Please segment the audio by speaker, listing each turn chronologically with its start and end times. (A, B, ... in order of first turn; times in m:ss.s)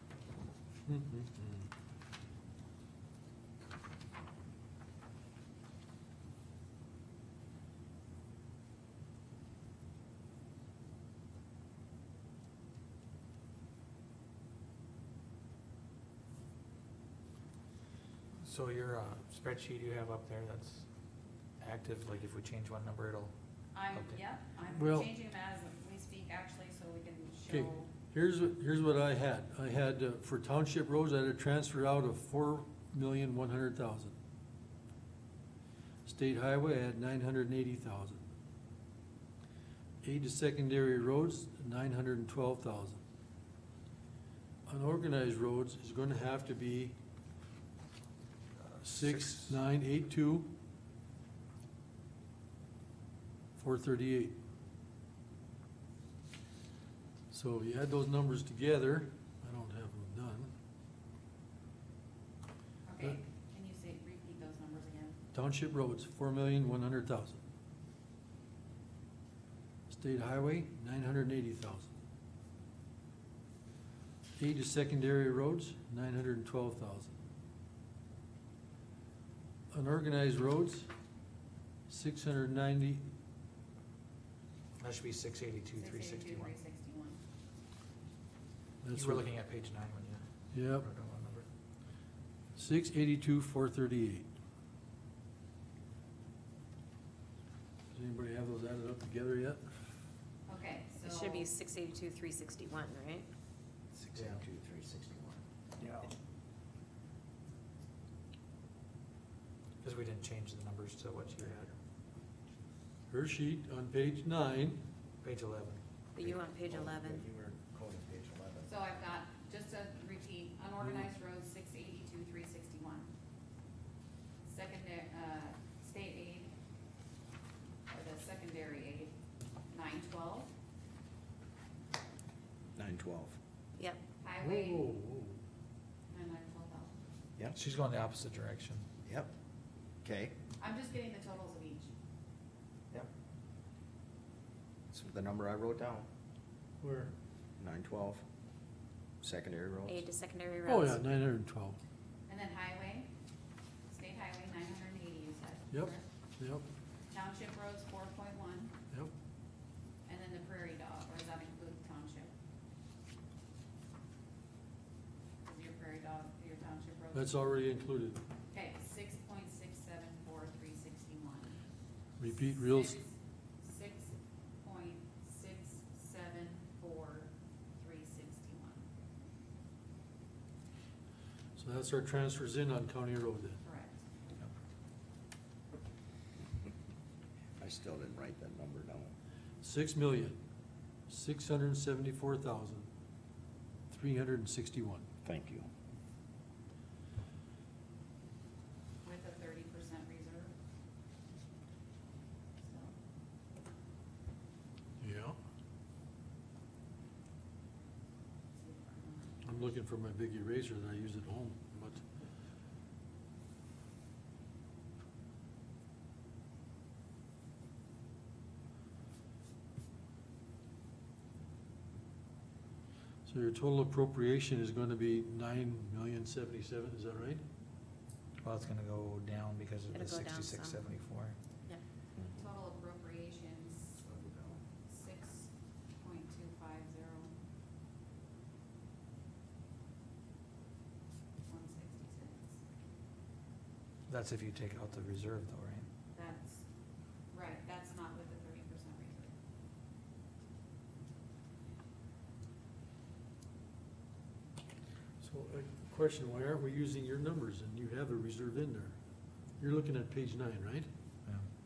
0:00.8-0:01.7 A
0:18.4-0:20.9 B
0:21.6-0:23.3 B
0:23.7-0:27.9 C
0:23.9-0:24.2 B
0:24.8-0:25.1 A
0:27.5-0:34.1 A
0:36.0-0:38.2 A
0:40.0-0:43.0 A
0:44.7-0:47.0 A
0:48.6-0:49.6 B
0:48.8-0:50.5 A
0:53.6-0:54.4 A
0:57.3-1:00.5 A
1:02.8-1:05.2 C
1:05.3-1:07.4 A
1:09.9-1:11.9 A
1:14.4-1:17.1 A
1:19.7-1:20.9 A
1:21.9-1:23.0 A
1:24.8-1:26.6 B
1:25.8-1:27.2 C
1:28.8-1:29.3 A
1:28.9-1:31.5 B
1:30.5-1:30.9 A
1:32.6-1:34.3 A
1:37.9-1:39.6 A
1:40.5-1:41.5 C
1:41.0-1:43.3 D
1:43.9-1:46.1 E
1:44.1-1:44.4 B
1:49.8-1:51.7 B
1:53.1-1:54.8 A
1:55.2-1:55.8 B
1:56.1-1:57.2 D
1:56.2-1:58.8 E
1:58.7-2:03.1 C
2:04.4-2:06.5 C
2:07.9-2:09.1 C
2:09.7-2:10.5 C
2:12.8-2:13.4 E
2:14.2-2:14.9 C
2:14.4-2:15.4 A
2:16.1-2:16.9 C
2:17.5-2:18.9 B
2:19.0-2:19.3 E
2:20.0-2:20.3 E
2:20.6-2:21.9 C
2:24.9-2:26.1 E
2:26.8-2:27.1 A
2:27.6-2:28.2 E
2:29.2-2:30.0 E
2:29.9-2:31.0 D
2:30.6-2:31.8 A
2:32.3-2:33.1 C
2:33.9-2:36.0 C
2:35.7-2:36.6 A
2:37.1-2:38.7 C
2:40.0-2:42.3 C
2:45.4-2:47.4 C
2:47.1-2:48.2 A
2:48.5-2:51.6 C
2:52.2-2:53.0 A
2:52.3-2:58.8 C
3:01.6-3:03.6 A
3:03.6-3:04.1 C
3:07.6-3:09.1 E
3:09.6-3:10.4 A
3:11.1-3:12.9 A
3:13.9-3:15.0 A
3:15.2-3:15.7 E
3:19.0-3:20.5 C
3:22.6-3:22.9 C
3:25.0-3:25.4 A
3:28.6-3:29.5 C
3:29.4-3:32.0 A
3:43.2-3:47.4 A
3:48.4-3:51.4 B
3:49.9-3:50.8 D
3:52.4-3:54.0 C
3:54.0-3:54.6 E
3:54.9-3:57.3 C
4:01.4-4:02.6 C
4:04.1-4:05.9 B
4:06.1-4:06.6 C
4:07.3-4:09.3 C
4:15.2-4:19.0 A
4:19.6-4:20.9 A
4:21.2-4:21.5 B